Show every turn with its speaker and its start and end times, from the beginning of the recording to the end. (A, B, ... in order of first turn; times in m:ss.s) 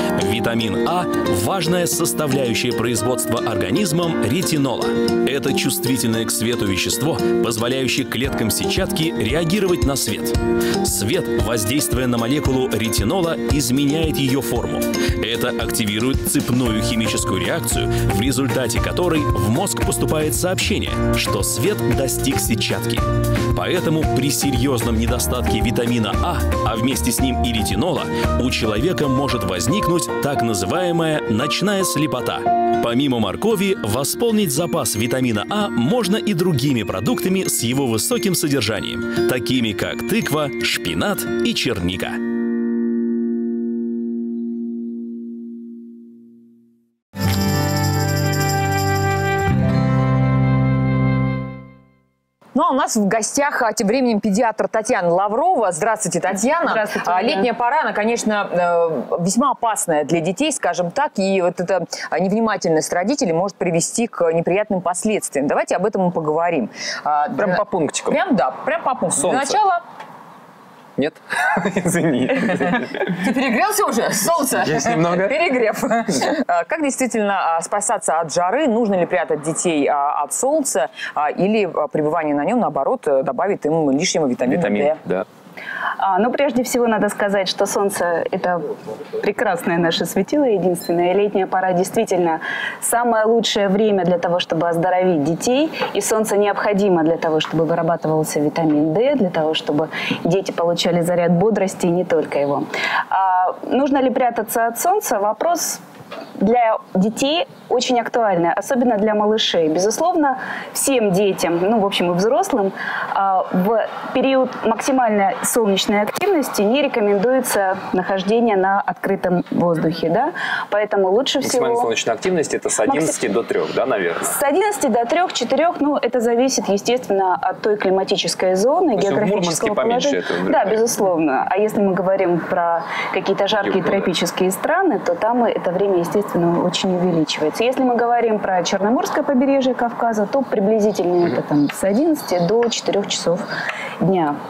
0:00.1-0:42.2 A
0:52.5-1:09.8 B
0:56.3-0:57.5 C
1:07.4-1:08.2 D
1:09.1-1:09.6 D
1:11.0-1:13.1 D
1:12.5-1:25.0 B
1:14.6-1:15.4 D
1:24.5-1:25.2 D
1:26.0-1:45.8 C
1:46.4-2:01.9 C
2:01.4-2:04.3 D
2:02.8-2:03.1 C
2:04.2-2:23.4 C
2:09.0-2:10.9 D
2:13.6-2:14.1 D
2:24.0-2:24.4 C